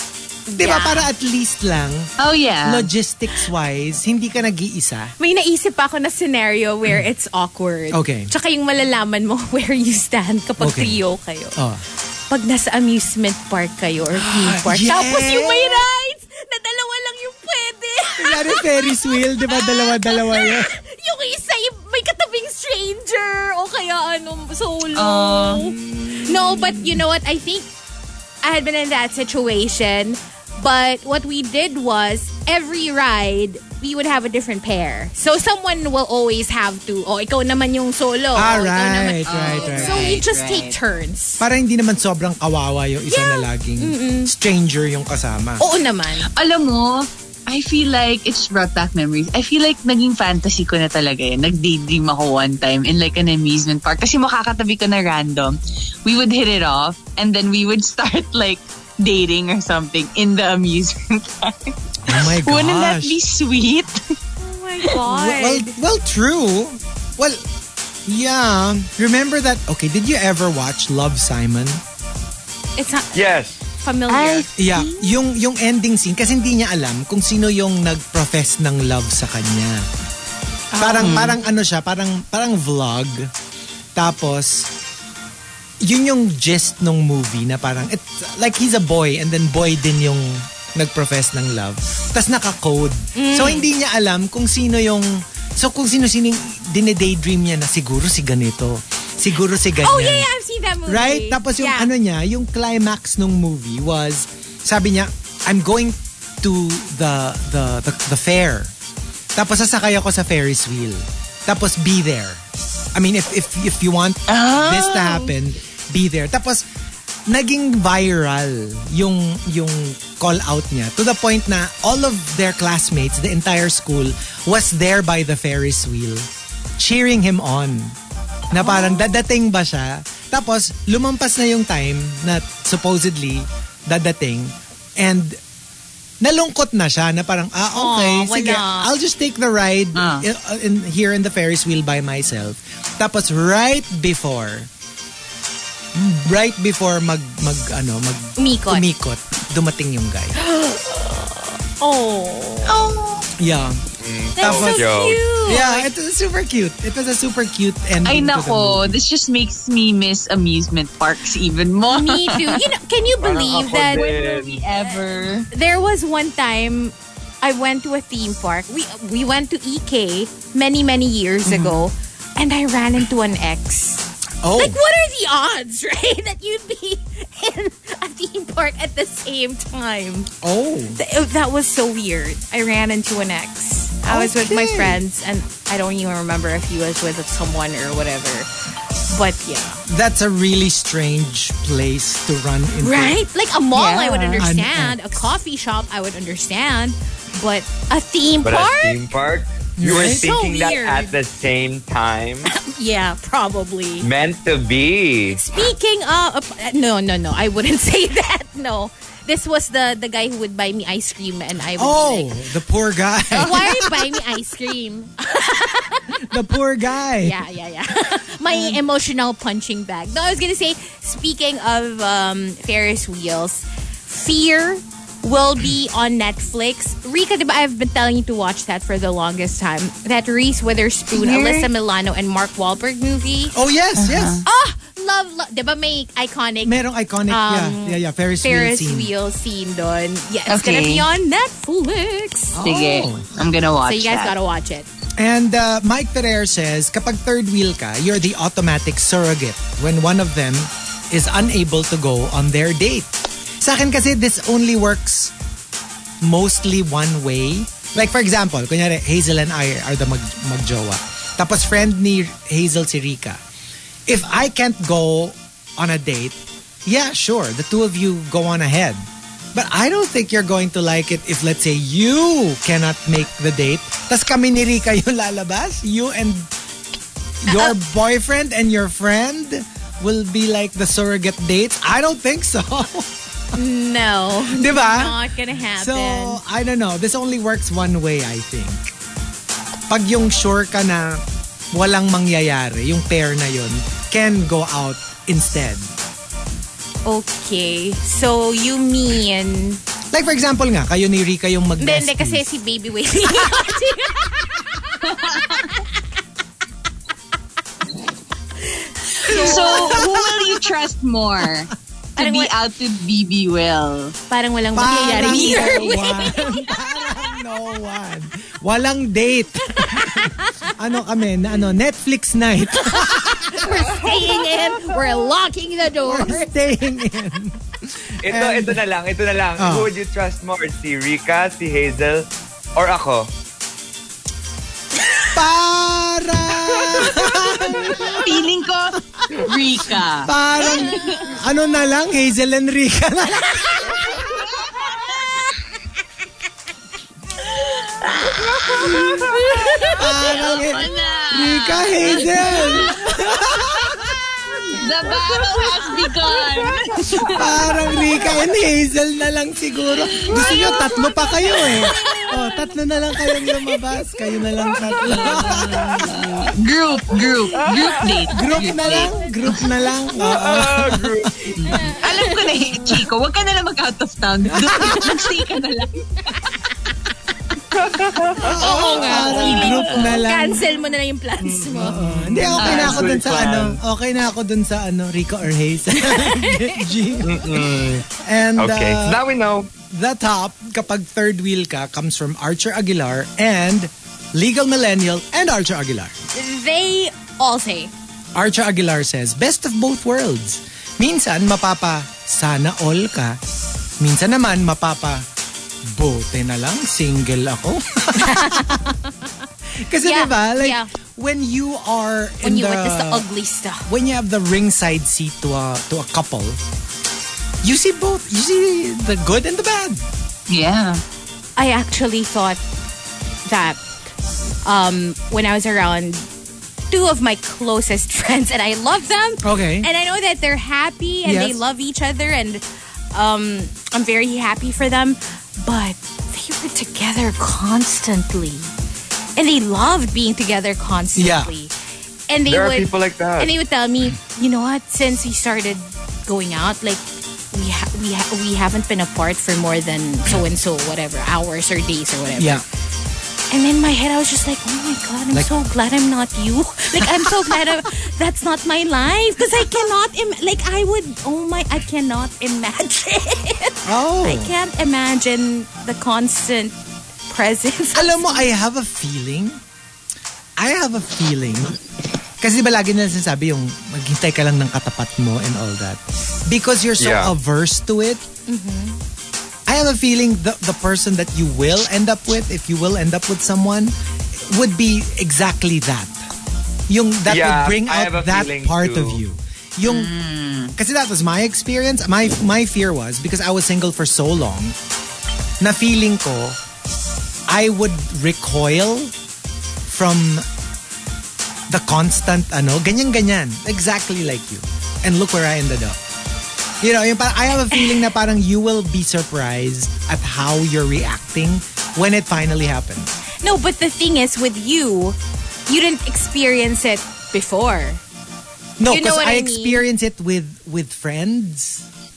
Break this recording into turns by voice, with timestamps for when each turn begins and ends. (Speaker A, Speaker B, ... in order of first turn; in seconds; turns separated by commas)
Speaker A: 0.5-1.1, Speaker B: 0.6-2.1, Speaker C: 2.2-2.9, Speaker B: 2.6-5.1, Speaker A: 5.2-11.6, Speaker B: 7.9-8.3, Speaker B: 10.6-11.0, Speaker B: 11.6-11.8, Speaker A: 12.3-27.7, Speaker B: 14.1-15.8, Speaker B: 18.2-20.7, Speaker C: 24.9-25.6, Speaker B: 25.6-27.0, Speaker A: 28.4-41.4, Speaker B: 38.3-40.2, Speaker C: 39.2-40.8, Speaker B: 41.4-45.6, Speaker A: 43.1-44.3, Speaker A: 45.6-46.3, Speaker C: 46.3-64.1, Speaker B: 62.0-63.1, Speaker A: 64.4-65.8, Speaker B: 65.0-67.4, Speaker B: 68.0-71.8, Speaker A: 72.8-73.1, Speaker D: 73.1-73.6, Speaker A: 73.8-75.1, Speaker C: 74.1-74.5, Speaker B: 74.6-79.8, Speaker A: 80.7-81.2, Speaker B: 80.8-83.3, Speaker C: 80.8-81.3, Speaker B: 83.9-84.7, Speaker B: 85.8-100.3, Speaker A: 93.1-93.7, Speaker A: 99.8-101.9, Speaker B: 100.8-108.7, Speaker B: 109.3-112.4, Speaker B: 112.9-116.6, Speaker C: 114.3-115.3, Speaker B: 117.3-126.3, Speaker B: 126.8-128.0, Speaker B: 128.5-135.4, Speaker A: 128.5-129.1, Speaker B: 136.2-144.7, Speaker A: 137.7-138.9, Speaker C: 139.9-140.3, Speaker B: 145.9-150.3, Speaker A: 148.4-148.8, Speaker A: 150.3-152.8, Speaker C: 152.7-153.2, Speaker B: 152.8-153.8, Speaker D: 154.0-155.2, Speaker A: 154.4-155.8, Speaker B: 154.4-154.8, Speaker B: 155.4-159.0, Speaker C: 158.0-162.6, Speaker A: 161.9-164.2, Speaker D: 163.2-164.6, Speaker C: 163.8-165.5, Speaker A: 165.5-180.3, Speaker C: 171.4-171.8, Speaker B: 174.4-174.8, Speaker B: 180.4-181.0, Speaker A: 181.0-188.5, Speaker B: 184.0-185.0, Speaker A: 189.1-189.8, Speaker B: 189.9-193.2, Speaker A: 192.8-199.0, Speaker C: 193.7-194.4, Speaker B: 194.3-195.2, Speaker D: 198.4-202.5, Speaker B: 199.8-200.3, Speaker A: 200.0-201.1, Speaker A: 202.5-204.1, Speaker D: 204.0-205.4, Speaker A: 205.3-212.3, Speaker B: 211.8-214.1, Speaker A: 213.3-216.2, Speaker B: 216.3-217.4, Speaker A: 217.2-233.5, Speaker C: 231.1-231.7, Speaker B: 233.5-234.4, Speaker C: 234.0-234.4, Speaker A: 234.4-236.8, Speaker B: 236.6-239.1, Speaker A: 237.3-242.6, Speaker C: 240.5-241.1, Speaker B: 242.5-243.3, Speaker C: 242.6-244.3, Speaker A: 243.8-244.9, Speaker B: 245.2-253.1, Speaker B: 253.6-255.3, Speaker B: 256.2-263.4, Speaker B: 264.1-276.5, Speaker B: 277.4-283.1, Speaker A: 283.5-286.4, Speaker B: 284.5-285.2, Speaker B: 285.7-288.9, Speaker B: 289.9-295.9, Speaker A: 297.1-299.8, Speaker B: 300.1-302.5, Speaker A: 301.8-305.8, Speaker C: 305.0-305.7, Speaker A: 309.1-310.0, Speaker C: 309.2-314.1, Speaker B: 309.3-310.2, Speaker A: 312.2-312.5, Speaker A: 314.3-316.8, Speaker B: 314.7-324.1, Speaker C: 315.2-315.9, Speaker A: 319.7-320.6, Speaker A: 322.8-326.5, Speaker B: 326.0-328.8, Speaker D: 328.2-333.3, Speaker B: 329.6-329.9, Speaker B: 335.3-338.4, Speaker C: 337.7-341.3, Speaker B: 339.1-339.5, Speaker B: 340.2-344.0, Speaker C: 347.4-353.1, Speaker A: 349.5-349.9, Speaker B: 349.9-354.1, Speaker C: 354.7-357.8, Speaker B: 357.3-366.2, Speaker C: 360.2-362.3, Speaker A: 360.4-360.8, Speaker C: 365.0-369.6, Speaker D: 367.6-368.1, Speaker B: 368.3-371.9, Speaker D: 370.2-371.6, Speaker C: 371.6-376.3, Speaker A: 371.7-372.4, Speaker B: 374.5-375.1, Speaker A: 374.8-375.2, Speaker D: 377.7-378.6, Speaker B: 378.4-380.6, Speaker A: 378.4-382.0, Speaker C: 378.9-380.2, Speaker D: 381.4-383.8, Speaker B: 381.8-389.2, Speaker C: 382.6-383.2, Speaker A: 386.0-386.9, Speaker D: 387.2-388.1, Speaker D: 388.6-389.7, Speaker B: 389.8-396.1, Speaker A: 396.3-397.9, Speaker B: 398.3-403.4, Speaker B: 404.0-405.2, Speaker B: 405.8-408.9, Speaker A: 408.1-409.1, Speaker B: 409.8-413.2, Speaker A: 410.0-410.9, Speaker A: 412.4-413.9, Speaker B: 413.9-416.6, Speaker B: 417.6-420.0, Speaker C: 420.5-421.0, Speaker A: 421.6-422.6, Speaker A: 423.4-423.8, Speaker A: 424.6-426.3, Speaker A: 426.9-438.7, Speaker B: 429.4-429.9, Speaker B: 431.2-431.6, Speaker A: 439.4-441.7, Speaker B: 441.1-441.5, Speaker A: 442.3-447.0, Speaker D: 442.5-443.5, Speaker A: 447.5-452.6, Speaker B: 452.4-452.6, Speaker A: 453.5-466.8, Speaker B: 456.9-457.8, Speaker B: 463.8-464.5, Speaker A: 467.3-468.5, Speaker B: 467.9-469.6, Speaker B: 470.6-471.8, Speaker B: 472.4-478.2, Speaker D: 477.0-477.3, Speaker A: 478.5-479.0, Speaker B: 479.7-486.2, Speaker B: 486.9-490.1, Speaker D: 487.3-489.2, Speaker C: 489.8-490.7, Speaker B: 490.7-494.8, Speaker B: 495.6-496.6, Speaker B: 497.5-499.1, Speaker B: 499.9-500.4, Speaker B: 501.7-506.0, Speaker B: 506.8-513.1, Speaker A: 513.4-515.1, Speaker A: 515.7-518.0, Speaker B: 518.8-521.9, Speaker A: 518.9-519.8